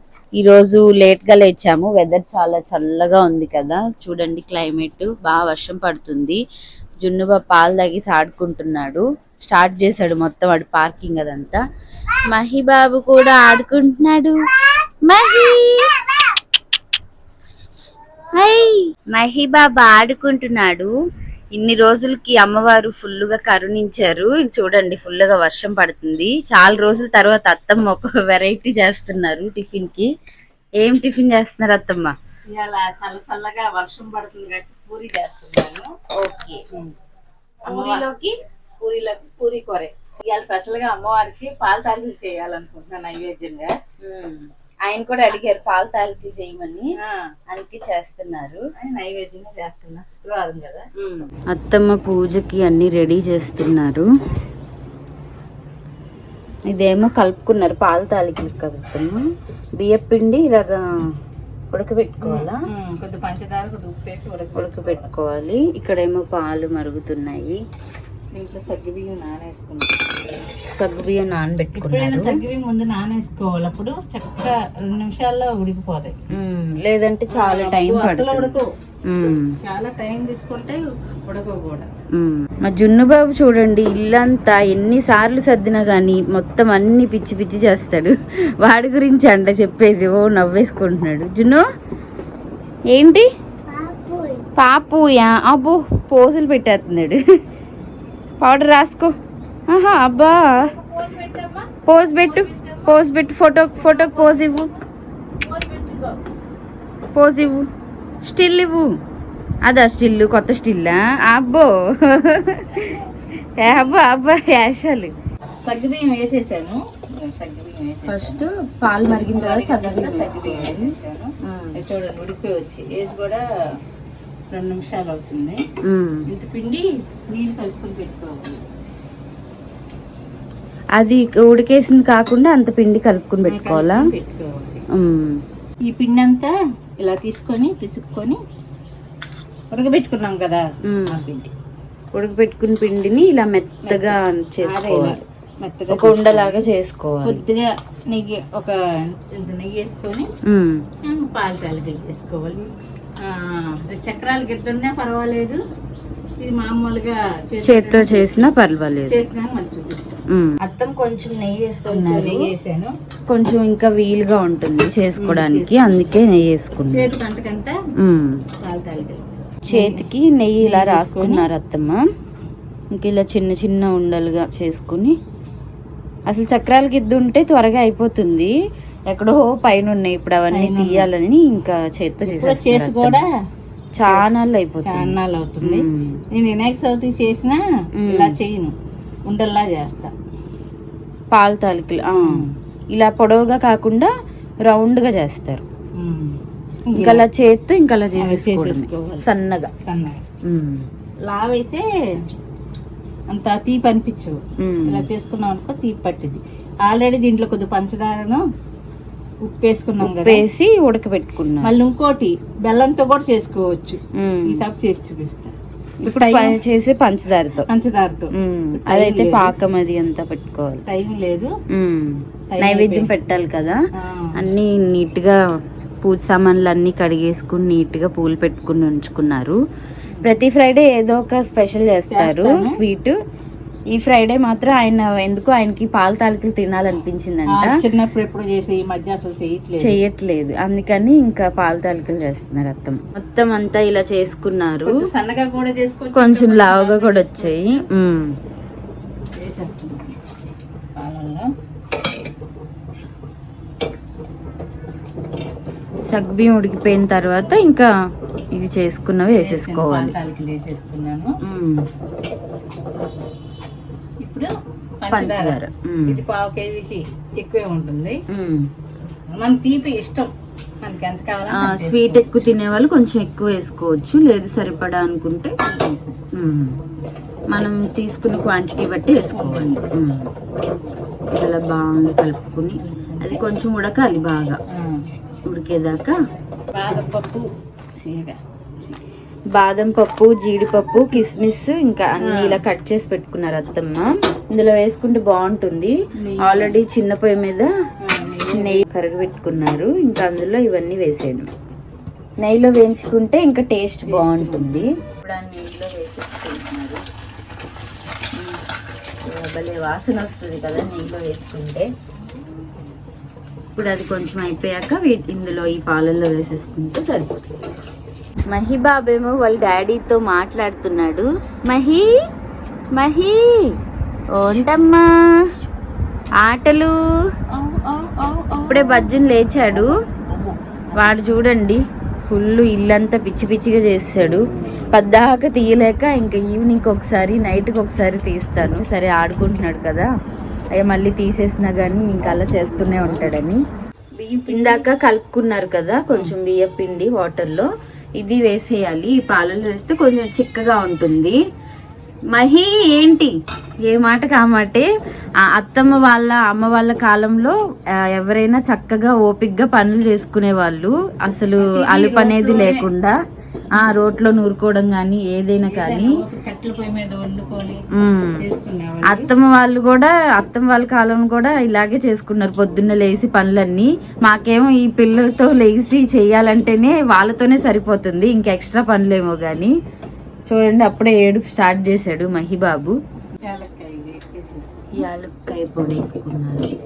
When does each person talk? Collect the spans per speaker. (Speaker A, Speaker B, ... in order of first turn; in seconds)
Speaker A: 0.4-6.4, 7.0-11.6, 12.3-14.4, 15.0-16.0, 17.6-17.8, 18.3-20.9, 21.5-30.1, 30.8-32.1, 36.2-36.6, 37.7-38.3, 44.0-46.9, 47.5-48.6, 51.0-54.1, 56.7-59.2, 59.8-60.8, 61.7-62.6, 64.5-67.6, 70.8-72.4, 76.3-79.5, 82.1-91.6, 92.9-93.3, 94.5-97.2, 98.4-99.1, 99.7-100.7, 101.9-104.7, 107.1-107.7, 108.2-108.9, 109.6-113.0, 113.5-115.1, 118.1-121.8, 125.8-126.3, 131.0-134.1, 134.9-135.4, 140.8-141.2, 142.1-145.2, 145.9-147.4, 150.4-150.8, 157.6-159.3, 160.3-162.5, 163.3-167.1, 168.0-168.4, 169.7-172.0, 172.9-175.2, 176.3-178.5, 179.1-183.2, 183.9-186.2, 188.0-188.3, 191.3-194.1, 194.7-195.6, 196.9-199.7, 200.4-200.9, 204.6-205.1, 210.1-211.7, 214.2-214.6, 216.0-217.7, 218.3-220.8, 221.7-223.8, 224.3-225.4, 226.0-229.6, 230.2-233.2, 233.9-237.8, 239.8-245.1, 246.1-248.3, 256.1-257.9, 258.5-260.1, 261.4-261.8, 265.1-266.2, 268.3-268.7, 271.5-275.5, 276.3-276.8, 277.5-280.3, 281.4-284.6, 285.5-286.1, 289.6-297.7, 298.5-301.5, 302.4-307.0, 309.2-311.9, 313.8-317.3, 318.5-322.1, 322.9-323.8, 324.3-325.4, 326.4-326.9, 328.6-329.9, 330.9-340.1, 340.8-343.6, 344.5-351.4, 352.3-353.3, 353.9-354.9, 355.4-363.1, 363.8-366.2, 367.9-368.4, 369.0-379.7, 380.5-382.9, 384.9-386.7
Speaker B: 32.5-35.9, 37.7-38.1, 38.8-43.7, 47.0-47.3, 48.8-50.9, 62.2-65.1, 68.3-69.9, 71.7-76.2, 77.3-78.7, 79.6-81.9, 93.7-94.4, 100.4-103.0, 103.8-104.8, 105.4-106.3, 115.6-118.5, 119.2-123.5, 124.5-125.6, 126.3-128.6, 133.5-134.8, 135.9-138.4, 139.7-141.5, 143.8-146.6, 147.2-150.3, 151.0-155.6, 156.4-158.5, 159.1-160.1, 161.8-162.9, 165.2-165.9, 166.9-167.8, 168.6-170.1, 170.6-171.5, 180.5-181.1, 182.2-183.3, 184.8-188.7, 189.2-190.1, 192.2-192.5, 196.0-197.3, 198.2-199.2, 199.8-200.2, 201.3-202.2, 203.3-208.4, 209.4-210.4, 211.6-216.6, 217.7-219.5, 220.8-221.5, 222.5-223.1, 224.0-224.5, 232.1-232.8, 237.5-240.0, 244.9-247.8, 249.3-250.2, 250.9-251.5, 259.3-261.3, 264.2-268.2, 269.0-272.5, 275.6-276.2, 279.3-279.8, 282.8-283.4, 284.7-285.1, 286.7-287.5, 288.0-289.0, 292.2-292.6, 296.2-296.8, 298.0-298.9, 304.0-304.9, 327.5-329.1, 330.3-331.2, 344.2-344.9, 346.1-346.3, 361.6-362.9, 365.6-367.8, 368.4-369.3, 383.5-384.9